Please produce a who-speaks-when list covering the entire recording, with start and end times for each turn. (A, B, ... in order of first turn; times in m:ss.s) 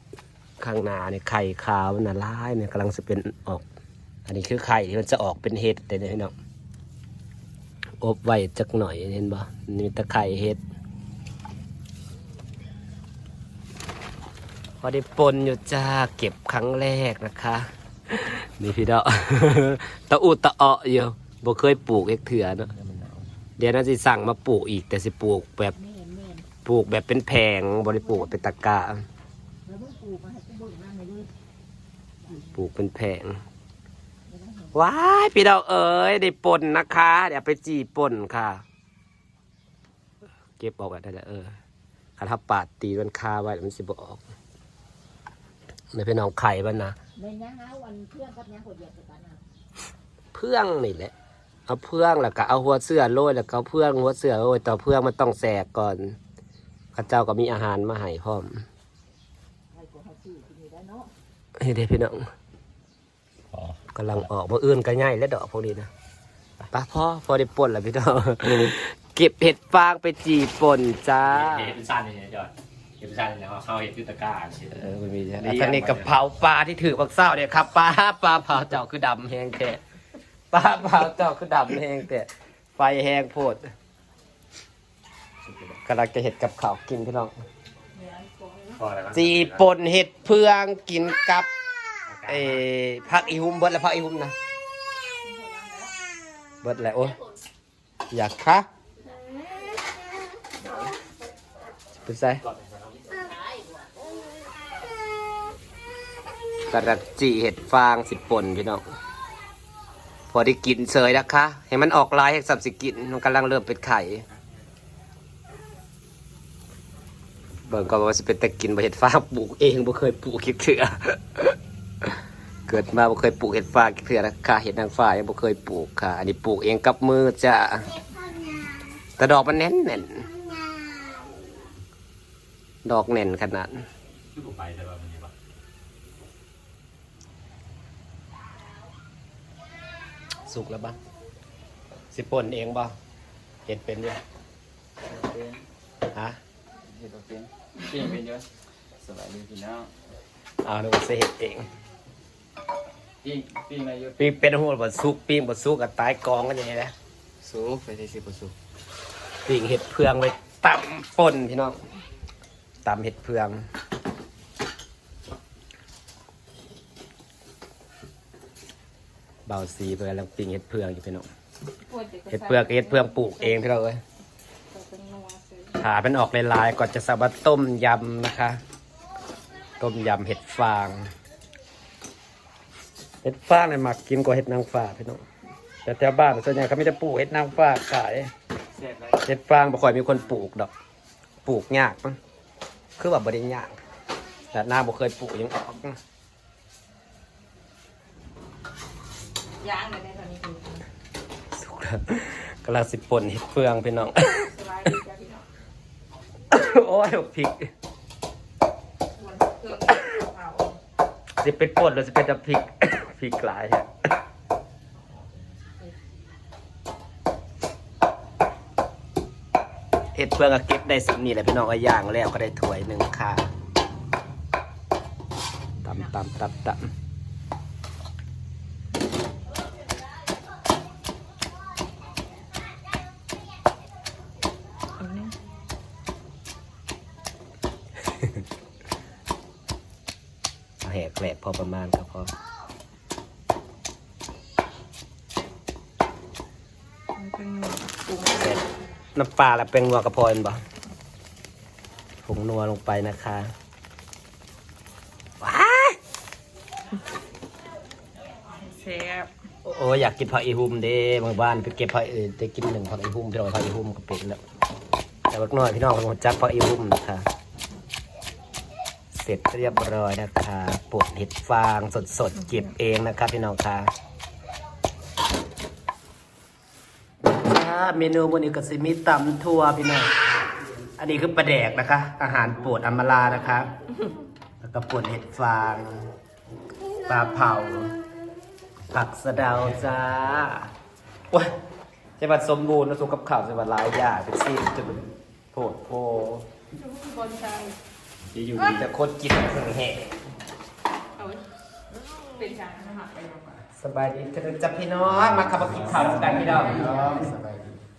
0:00.6-0:03.6 A
0:04.3-0:06.3 A
0:08.0-0:10.6 A
0:14.8-0:22.7 A
0:22.7-0:23.3 B
0:23.6-0:25.7 A
0:25.8-0:26.5 C
0:26.6-0:29.0 A
0:29.6-0:31.3 C
0:32.4-0:33.4 A
0:34.3-0:34.7 C
0:34.7-0:38.6 A
0:40.6-0:41.6 A
0:42.2-0:44.2 A
0:45.9-0:47.0 A
0:47.2-0:49.4 C
0:50.3-0:51.1 A
0:51.7-0:56.2 A
0:56.9-0:58.6 A
0:59.7-1:01.1 C
1:01.6-1:02.2 A
1:03.5-1:03.8 B
1:03.9-1:05.9 A
1:06.7-1:11.7 A
1:11.2-1:14.8 B
1:14.7-1:19.8 A
1:15.4-1:16.2 B
1:20.5-1:23.7 A
1:25.5-1:25.7 B
1:25.8-1:27.3 A
1:28.0-1:28.8 D
1:28.8-1:29.6 B
1:29.1-1:31.5 A
1:32.0-1:32.6 B
1:32.3-1:34.3 A
1:35.2-1:35.9 D
1:36.6-1:37.2 A
1:38.1-1:38.6 A
1:42.0-1:42.4 A
1:42.5-1:43.1 B
1:43.2-1:43.8 C
1:46.7-1:48.8 A
1:50.3-1:54.2 A
1:57.7-2:07.9 A
2:09.2-2:10.3 A
2:12.8-2:13.8 A
2:14.3-2:15.3 B
2:20.5-2:21.0 A
2:22.1-2:22.9 A
2:23.6-2:24.2 A
2:25.0-2:25.6 E
2:26.1-2:26.4 A
2:26.8-2:29.9 E
2:30.6-2:31.7 A
2:33.2-2:34.3 E
2:34.2-2:36.9 A
2:37.4-2:38.5 E
2:39.4-2:41.8 A
2:42.8-2:43.6 A
2:49.5-2:51.2 A
2:51.8-2:53.6 D
2:52.3-2:54.0 A
2:54.7-2:55.8 D
2:55.8-2:58.6 A
2:59.8-3:01.1 A
3:03.2-3:05.2 A
3:05.8-3:08.3 A
3:08.7-3:09.2 E
3:09.2-3:10.7 A
3:11.4-3:12.2 A
3:13.0-3:13.8 A
3:14.5-3:16.0 A
3:19.6-3:20.8 D
3:21.5-3:24.5 A
3:24.3-3:25.5 D
3:26.5-3:27.7 A
3:29.2-3:30.8 D
3:31.4-3:33.9 A
3:40.1-3:43.5 A
3:45.8-3:46.9 A
3:55.0-3:55.3 D
4:00.8-4:02.3 A
4:07.1-4:08.6 D
4:09.1-4:10.6 A
4:12.2-4:13.5 A
4:15.4-4:16.0 A
4:18.5-4:19.3 D
4:19.6-4:24.4 A
4:25.3-4:27.2 A
4:29.1-4:33.9 A
4:37.2-4:40.1 A
4:41.0-4:43.7 A
4:44.6-4:46.1 A
4:47.0-4:48.0 A
4:48.9-4:50.7 A
4:49.6-4:50.0 B
4:52.2-4:56.4 A
4:56.8-4:57.8 D
4:58.2-4:58.8 B
4:58.6-5:00.0 A
5:01.2-5:01.4 D
5:02.3-5:03.6 D
5:03.7-5:07.0 A
5:05.1-5:06.1 B
5:05.9-5:07.8 E
5:06.1-5:07.3 D